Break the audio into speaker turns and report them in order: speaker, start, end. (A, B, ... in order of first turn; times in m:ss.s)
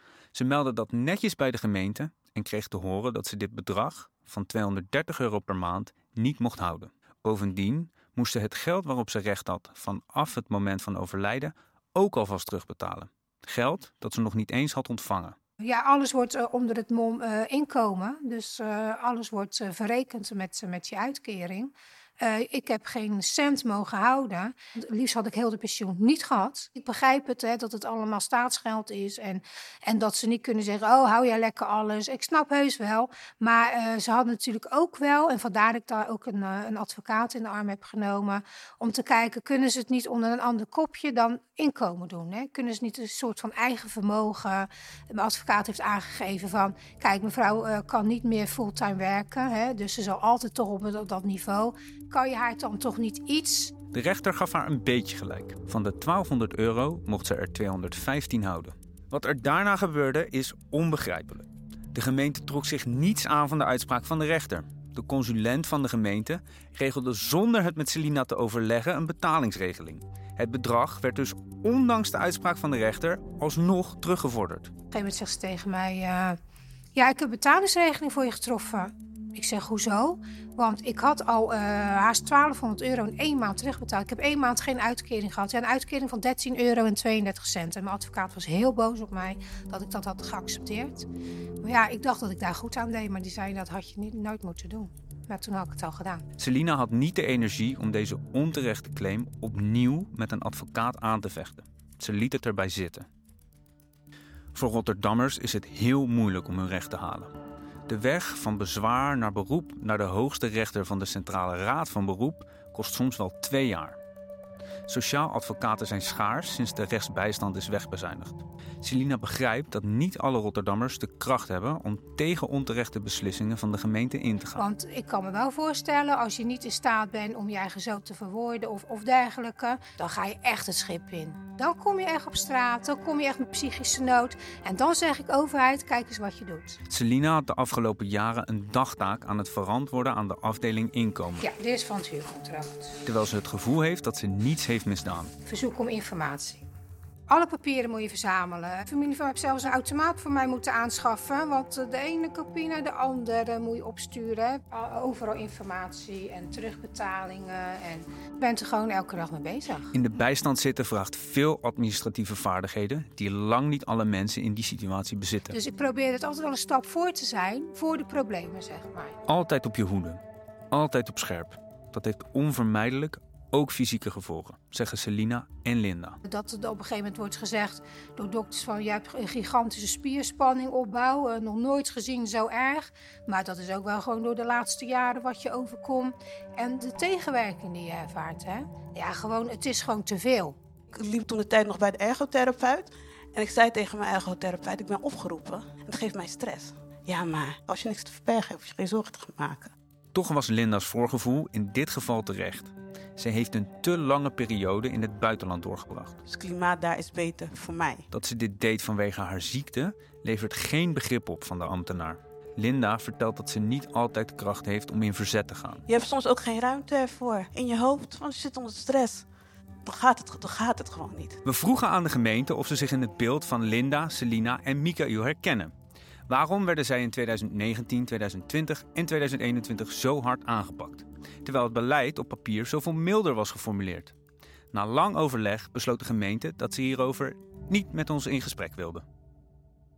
0:00.3-0:15.4 A
0:15.6-0:53.7 B
0:53.9-1:14.7 A
1:14.9-1:16.4 B
1:17.0-1:31.1 B
1:31.6-1:36.2 B
1:36.4-1:43.1 A
1:44.5-1:47.3 A
1:47.9-1:54.0 A
1:54.9-2:04.6 A
2:04.6-2:16.8 B
2:16.9-2:21.5 A
2:21.4-2:23.0 B
2:23.0-2:25.3 A
2:25.4-2:26.7 B
2:27.3-2:39.9 B
2:39.9-2:45.6 A
2:45.5-2:49.2 B
2:49.3-2:56.2 A
2:56.2-3:10.6 B
3:10.9-3:19.7 C
3:20.1-3:26.2 A
3:26.3-3:28.0 C
3:28.1-3:35.8 A
3:35.9-3:39.3 C
3:39.8-3:41.4 C
3:41.4-3:45.7 A
3:46.3-3:54.1 A
3:54.7-3:59.0 A